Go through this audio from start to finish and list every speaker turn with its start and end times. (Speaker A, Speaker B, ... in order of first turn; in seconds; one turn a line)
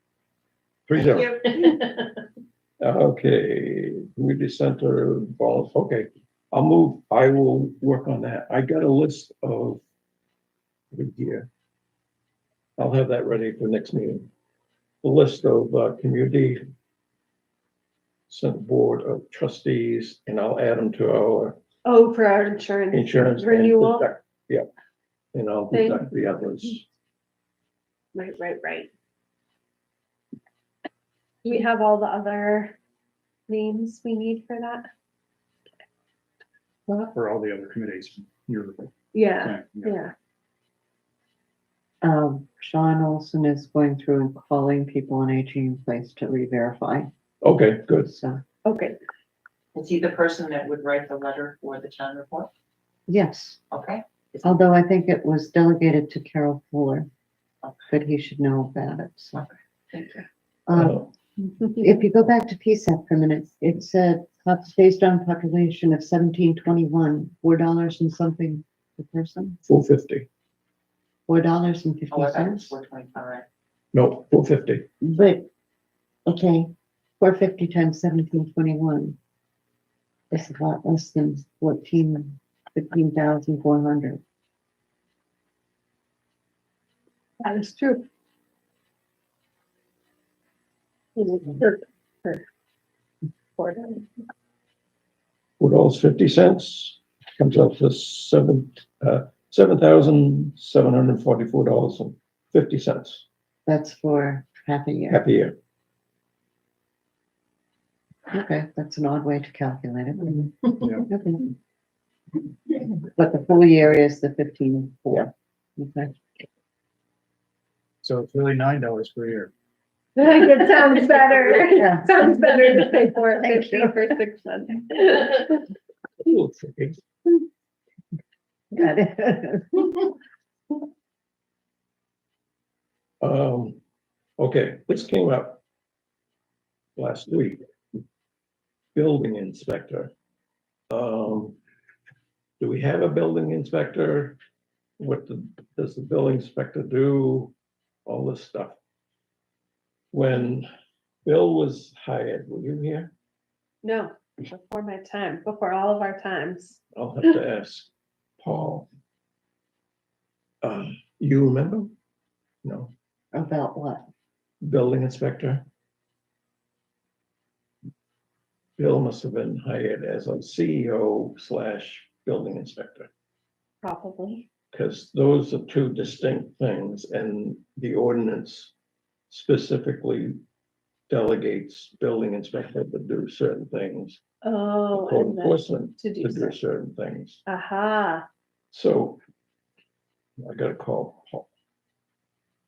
Speaker A: 0.9-1.4
Speaker B: 0.9-2.0
Speaker A: 2.8-9.8
Speaker A: 10.9-11.5
Speaker A: 12.8-14.3
Speaker A: 15.0-16.6
Speaker A: 18.3-21.6
Speaker C: 21.8-24.1
Speaker A: 22.9-24.7
Speaker A: 25.3-26.9
Speaker C: 25.7-26.1
Speaker C: 28.1-28.9
Speaker C: 31.4-32.8
Speaker C: 33.5-34.9
Speaker D: 37.0-40.0
Speaker C: 39.1-40.1
Speaker E: 42.0-47.1
Speaker A: 47.4-48.1
Speaker E: 48.0-48.4
Speaker C: 48.6-49.0
Speaker B: 49.7-52.5
Speaker E: 53.1-53.6
Speaker B: 53.7-54.6
Speaker E: 54.4-57.1
Speaker B: 57.6-57.9
Speaker E: 57.9-59.4
Speaker B: 59.3-60.2
Speaker E: 60.7-61.1
Speaker A: 60.7-61.1
Speaker C: 61.5-61.8
Speaker E: 61.8-69.6
Speaker A: 69.6-70.3
Speaker E: 71.3-72.8
Speaker B: 72.1-73.4
Speaker A: 73.9-74.9
Speaker E: 75.0-75.5
Speaker E: 76.2-79.2
Speaker E: 80.3-84.2
Speaker C: 87.4-88.0
Speaker C: 91.2-92.4
Speaker C: 93.6-94.1
Speaker A: 95.6-103.2
Speaker E: 103.7-105.2
Speaker A: 105.1-105.5
Speaker E: 108.3-111.5
Speaker D: 110.8-111.1
Speaker E: 112.9-116.4
Speaker D: 118.0-119.5
Speaker C: 120.2-125.6
Speaker E: 120.2-124.0
Speaker A: 126.2-127.0
Speaker E: 128.7-130.0
Speaker A: 133.2-133.8
Speaker A: 134.4-135.6
Speaker A: 137.0-137.6
Speaker A: 138.9-140.1
Speaker A: 140.9-141.6
Speaker A: 142.6-144.4
Speaker A: 145.0-147.5
Speaker A: 148.1-148.8
Speaker A: 150.1-150.7
Speaker A: 151.2-153.1
Speaker C: 153.8-156.8
Speaker A: 156.9-158.9
Speaker A: 160.6-161.9
Speaker A: 162.6-162.9
Speaker E: 163.3-164.1
Speaker A: 164.6-165.7
Speaker A: 168.8-173.1
Speaker C: 173.8-174.4
Speaker A: 174.7-178.7
Speaker A: 179.3-180.4
Speaker A: 181.1-184.2
Speaker C: 184.4-186.6
Speaker A: 184.9-187.4
Speaker C: 187.4-188.2
Speaker A: 188.7-189.2
Speaker A: 190.4-191.5